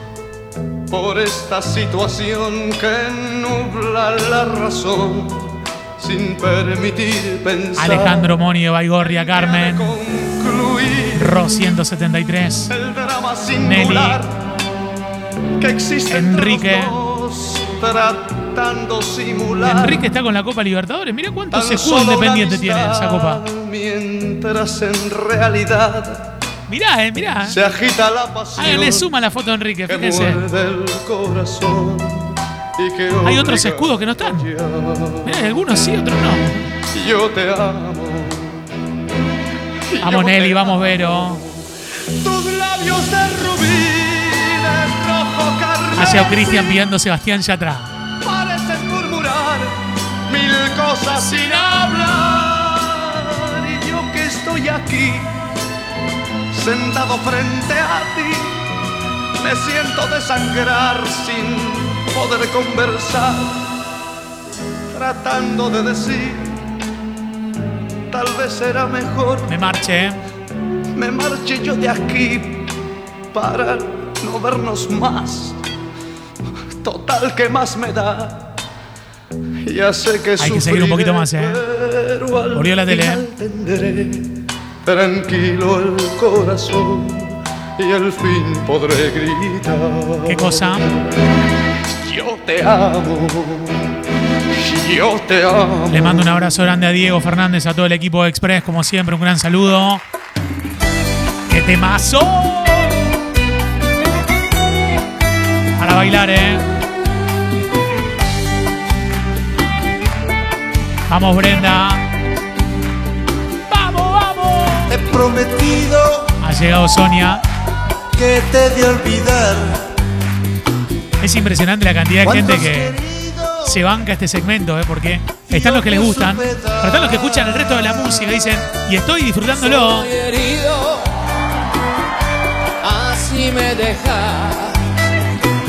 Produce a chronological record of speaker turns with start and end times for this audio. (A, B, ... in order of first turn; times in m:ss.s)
0:00.9-0:08.3 A
0:07.8-0:10.0 B
0:09.0-0:11.4 A
0:11.2-0:12.7 B
0:12.7-0:14.3 A
0:13.6-0:14.2 B
0:15.6-0:20.0 A
0:16.1-0:17.0 B
0:19.6-0:23.4 B
0:21.5-0:26.3 A
0:26.7-0:27.6 B
0:27.4-0:29.1 A
0:28.6-0:30.4 B
0:29.9-0:35.3 A
0:33.2-0:34.5 B
0:35.2-0:36.7 B
0:36.9-0:38.6 A
0:39.9-0:41.6 A
0:40.0-0:41.4 B
0:42.2-0:46.8 A
0:46.0-0:47.9 B
0:48.2-0:49.7 A
0:50.3-0:55.3 A
0:51.1-0:51.9 B
0:56.5-0:58.5 A
0:59.4-1:03.5 A
1:04.9-1:06.6 A
1:08.1-1:09.5 A
1:09.5-1:10.2 B
1:11.0-1:12.7 A
1:13.3-1:15.6 A
1:16.8-1:18.5 A
1:19.7-1:24.3 A
1:20.4-1:21.6 B
1:22.5-1:23.2 B
1:24.8-1:30.9 A
1:30.2-1:30.8 B
1:32.0-1:33.9 A
1:34.5-1:36.4 A
1:35.9-1:40.0 B
1:41.5-1:43.1 B
1:45.8-1:46.6 B
1:51.1-1:52.0 B
1:53.7-1:55.1 B
1:54.9-1:56.3 C
1:56.4-1:57.4 B
1:58.2-1:59.8 C
2:01.2-2:03.0 B
2:02.2-2:03.8 C
2:03.6-2:10.1 B
2:05.5-2:08.0 C
2:09.6-2:11.2 D
2:12.8-2:14.8 D